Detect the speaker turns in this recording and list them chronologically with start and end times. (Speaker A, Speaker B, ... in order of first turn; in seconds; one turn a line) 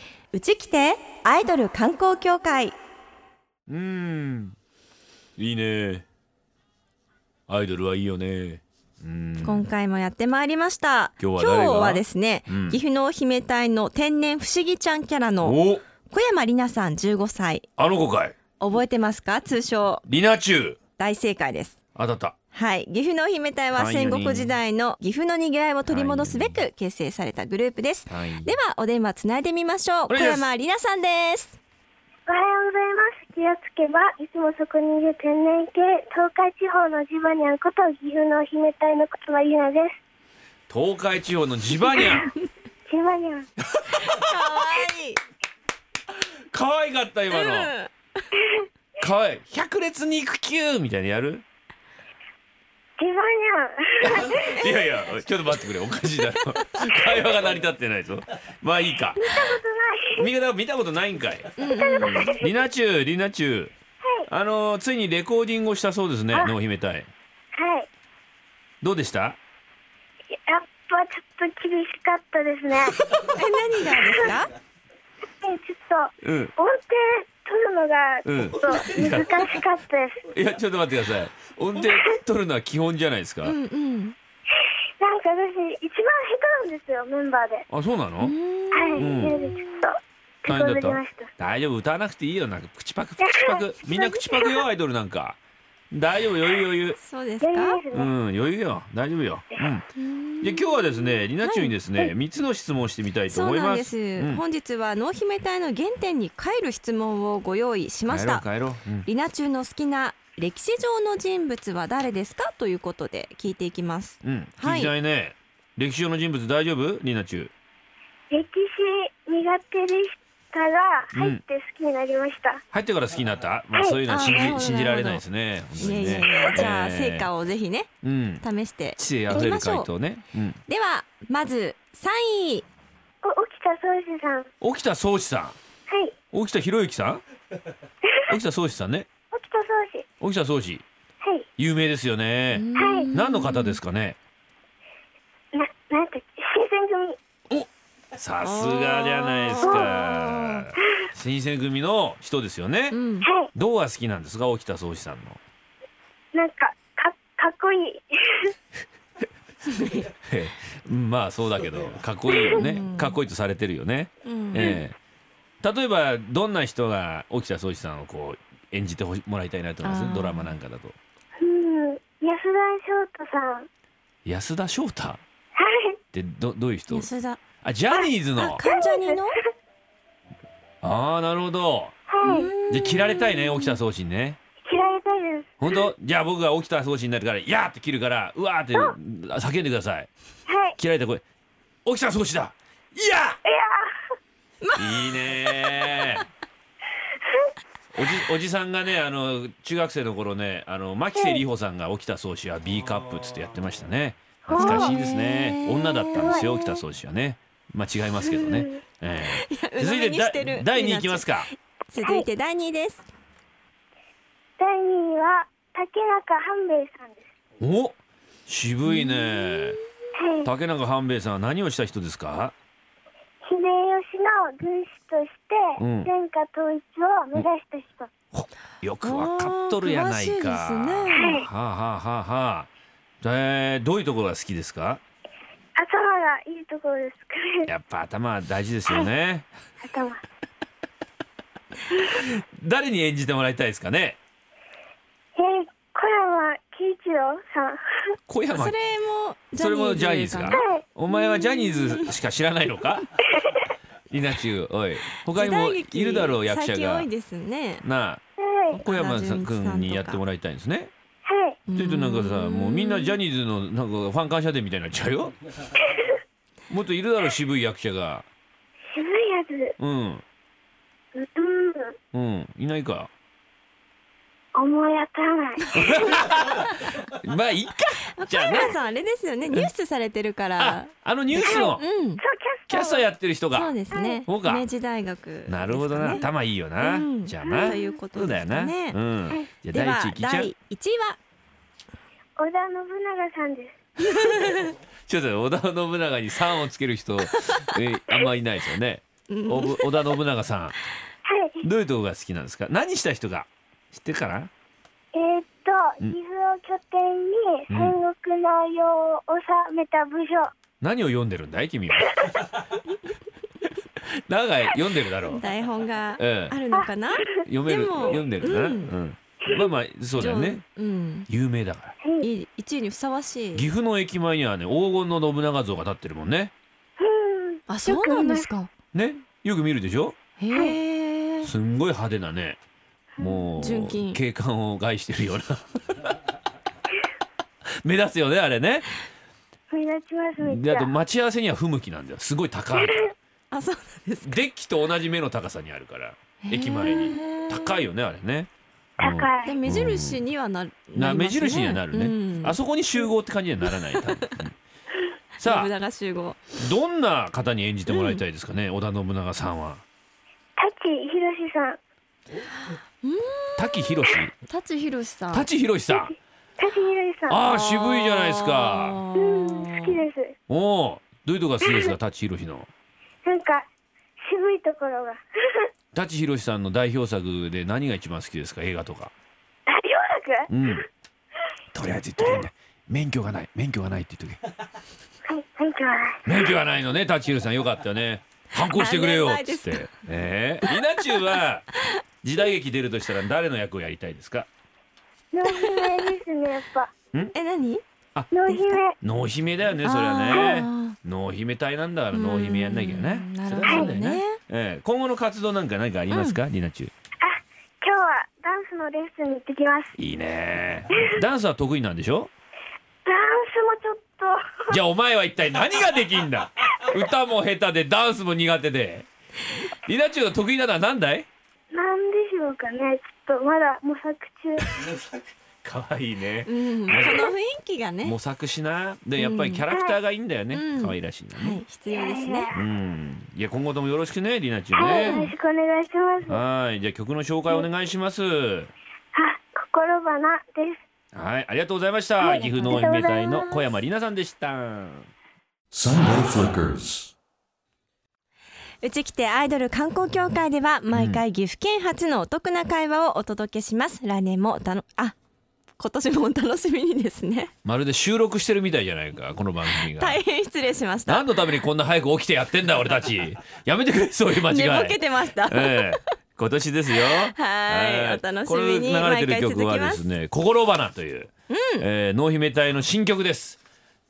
Speaker A: 0.3-2.8
Speaker B: 3.7-4.5
Speaker B: 5.4-6.0
Speaker B: 7.5-9.7
Speaker A: 9.4-17.7
Speaker B: 11.2-12.8
Speaker B: 15.4-15.8
Speaker B: 17.8-18.4
Speaker A: 18.6-20.0
Speaker B: 20.1-20.8
Speaker A: 21.0-21.7
Speaker B: 21.9-22.3
Speaker A: 22.5-31.6
Speaker B: 23.7-24.6
Speaker B: 25.9-26.6
Speaker B: 28.1-28.6
Speaker B: 30.1-30.5
Speaker C: 32.3-40.0
Speaker B: 40.7-42.3
Speaker C: 42.9-43.5
Speaker B: 43.8-44.4
Speaker A: 43.9-45.2
Speaker B: 46.1-47.7
Speaker A: 47.3-47.9
Speaker B: 49.0-51.4
Speaker C: 53.0-54.7
Speaker B: 54.0-59.6
Speaker C: 59.2-60.3
Speaker B: 60.1-61.5
Speaker A: 61.6-62.4
Speaker C: 61.7-62.5
Speaker B: 62.4-63.7
Speaker B: 64.3-67.1
Speaker C: 67.5-67.9
Speaker B: 68.8-69.4
Speaker C: 70.3-73.1
Speaker A: 73.2-74.5
Speaker C: 75.4-80.2
Speaker B: 76.2-76.5
Speaker B: 78.2-79.5
Speaker B: 80.3-83.5
Speaker A: 83.4-84.2
Speaker C: 85.0-87.6
Speaker B: 87.7-88.3
Speaker A: 88.2-89.6
Speaker C: 88.7-91.3
Speaker B: 89.0-89.3
Speaker B: 90.5-95.4
Speaker C: 93.2-94.6
Speaker B: 95.9-97.0
Speaker A: 97.0-97.8
Speaker C: 97.4-98.1
Speaker B: 97.9-99.9
Speaker A: 100.0-102.1
Speaker B: 100.4-104.4
Speaker A: 103.3-108.5
Speaker B: 108.1-109.1
Speaker A: 109.0-114.9
Speaker B: 114.2-117.5
Speaker C: 118.3-122.6
Speaker B: 121.1-121.4
Speaker B: 122.7-127.3
Speaker C: 123.7-124.0
Speaker A: 124.1-125.2
Speaker A: 125.8-129.9
Speaker B: 128.0-128.4
Speaker B: 128.9-130.6
Speaker A: 130.7-132.7
Speaker C: 133.2-134.5
Speaker B: 134.6-135.6
Speaker C: 135.9-136.1
Speaker B: 136.3-137.2
Speaker B: 138.3-139.1
Speaker C: 139.3-140.1
Speaker B: 140.2-140.8
Speaker C: 141.2-141.5
Speaker B: 141.6-144.2
Speaker A: 142.5-143.8
Speaker C: 142.8-143.1
Speaker C: 145.5-147.2
Speaker B: 147.5-153.0
Speaker A: 148.4-150.7
Speaker C: 149.6-149.9
Speaker A: 152.9-153.3
Speaker C: 153.2-153.5
Speaker B: 153.5-155.4
Speaker C: 156.3-158.5
Speaker A: 159.7-160.1
Speaker B: 160.2-164.9
Speaker A: 162.5-163.2
Speaker A: 164.2-164.8
Speaker B: 165.6-170.9
Speaker A: 169.8-170.5
Speaker C: 171.4-173.7
Speaker B: 174.2-175.2
Speaker C: 175.6-176.0
Speaker B: 176.1-177.1
Speaker A: 176.9-177.4
Speaker B: 177.6-178.6
Speaker A: 178.4-179.4
Speaker C: 178.6-179.3
Speaker B: 180.8-182.0
Speaker C: 182.1-182.5
Speaker A: 182.2-183.8
Speaker B: 182.7-184.4
Speaker C: 184.6-185.6
Speaker B: 185.6-190.1
Speaker C: 190.5-190.8
Speaker B: 190.8-191.2
Speaker B: 191.8-193.4
Speaker C: 193.4-193.9
Speaker A: 194.6-195.2
Speaker B: 194.8-196.2
Speaker B: 197.9-211.5
Speaker C: 201.1-201.4
Speaker C: 204.4-205.0
Speaker A: 204.5-206.8
Speaker C: 206.2-206.4
Speaker C: 208.4-208.8
Speaker A: 209.2-213.1
Speaker C: 212.0-212.3
Speaker C: 214.6-217.3
Speaker B: 217.6-219.8
Speaker A: 218.8-219.8
Speaker C: 220.2-220.5
Speaker B: 220.4-222.5
Speaker C: 223.4-228.1
Speaker B: 225.8-226.1
Speaker B: 228.3-232.7
Speaker A: 229.0-231.4
Speaker C: 231.1-231.5
Speaker B: 233.2-235.0
Speaker C: 235.8-237.7
Speaker B: 237.7-239.5
Speaker C: 239.8-240.2
Speaker C: 241.9-242.2
Speaker B: 242.2-244.2
Speaker C: 245.3-248.1
Speaker B: 248.3-248.8
Speaker A: 248.5-252.1
Speaker B: 249.6-253.2
Speaker C: 250.5-250.8
Speaker B: 254.1-257.1
Speaker A: 255.3-257.8
Speaker B: 257.8-258.2
Speaker C: 258.4-258.8
Speaker A: 258.7-260.2
Speaker B: 258.8-260.9
Speaker C: 261.2-261.6
Speaker A: 261.6-263.2
Speaker B: 261.7-265.3
Speaker B: 266.7-268.2
Speaker C: 268.9-269.7
Speaker B: 269.8-270.2
Speaker C: 271.1-271.9
Speaker B: 272.1-273.1
Speaker C: 274.5-275.8
Speaker B: 275.7-278.8
Speaker A: 278.2-282.2
Speaker B: 280.6-281.8
Speaker C: 281.3-283.1
Speaker B: 282.7-283.7
Speaker A: 283.5-286.2
Speaker C: 283.9-284.2
Speaker B: 284.2-284.6
Speaker B: 285.5-290.5
Speaker A: 286.8-289.0
Speaker C: 287.4-287.8
Speaker A: 289.7-291.2
Speaker C: 292.4-293.8
Speaker A: 294.0-294.7
Speaker B: 295.1-300.8
Speaker A: 297.3-297.8
Speaker A: 299.3-299.9
Speaker C: 301.2-301.6
Speaker B: 301.6-304.5
Speaker C: 305.1-310.5
Speaker B: 307.7-308.0
Speaker B: 310.8-312.4
Speaker B: 314.0-315.4
Speaker A: 315.2-318.9
Speaker B: 316.2-316.6
Speaker B: 317.4-320.6
Speaker C: 319.4-319.7
Speaker A: 320.1-321.3
Speaker B: 321.3-321.9
Speaker C: 322.0-322.3
Speaker A: 322.2-323.7
Speaker B: 323.5-326.5
Speaker C: 327.0-328.5
Speaker A: 327.7-328.7
Speaker B: 328.9-330.2
Speaker A: 330.4-331.5
Speaker B: 331.4-332.6
Speaker C: 333.2-333.5
Speaker B: 333.2-336.2
Speaker A: 333.6-334.2
Speaker B: 337.8-339.0
Speaker C: 339.7-340.9
Speaker B: 340.4-343.1
Speaker C: 342.7-343.1
Speaker A: 343.5-344.4
Speaker B: 344.2-350.2
Speaker A: 346.4-347.8
Speaker C: 349.0-349.6
Speaker A: 349.4-352.6
Speaker B: 350.9-354.5
Speaker A: 353.7-354.4
Speaker B: 355.4-355.7
Speaker A: 355.4-356.4
Speaker B: 356.6-359.8
Speaker A: 357.9-358.2
Speaker C: 360.6-361.8
Speaker A: 362.7-365.5
Speaker B: 363.6-364.3
Speaker B: 365.3-366.1
Speaker C: 365.9-367.4
Speaker B: 367.3-369.0
Speaker A: 367.4-370.0
Speaker C: 369.1-370.3
Speaker B: 370.5-372.7
Speaker C: 371.6-371.9
Speaker C: 373.2-373.7
Speaker C: 374.2-375.7
Speaker B: 375.9-379.1
Speaker C: 379.7-380.5
Speaker B: 380.5-380.8
Speaker B: 381.7-384.4
Speaker C: 385.3-386.4
Speaker B: 386.2-391.7
Speaker A: 388.6-390.0
Speaker A: 390.6-391.2
Speaker B: 392.2-394.5
Speaker C: 395.3-396.9
Speaker A: 395.5-396.0
Speaker A: 397.3-397.8
Speaker C: 398.3-398.9
Speaker A: 398.5-398.8
Speaker B: 398.9-406.9
Speaker A: 399.8-401.0
Speaker C: 400.3-400.6
Speaker A: 402.1-404.4
Speaker C: 403.6-403.9
Speaker A: 406.1-406.4
Speaker C: 407.2-409.9
Speaker B: 409.9-412.3
Speaker C: 413.1-414.8
Speaker B: 414.7-419.1
Speaker B: 419.9-421.3
Speaker C: 421.7-424.7
Speaker B: 424.7-427.3
Speaker A: 426.4-428.1
Speaker B: 428.0-431.6
Speaker A: 429.2-429.6
Speaker C: 429.7-430.0
Speaker A: 430.5-432.5
Speaker C: 431.9-432.6
Speaker B: 432.5-435.2
Speaker C: 434.8-436.4
Speaker A: 434.8-435.3
Speaker B: 436.3-438.7
Speaker C: 439.1-440.8
Speaker B: 441.1-445.1
Speaker C: 442.2-443.6
Speaker A: 442.6-442.9
Speaker B: 445.7-446.9
Speaker A: 448.8-455.2
Speaker B: 450.9-451.2
Speaker A: 455.8-457.5
Speaker B: 457.6-460.2
Speaker A: 459.7-461.3
Speaker B: 461.1-473.6
Speaker A: 464.4-466.0
Speaker A: 466.9-470.0
Speaker A: 471.5-471.9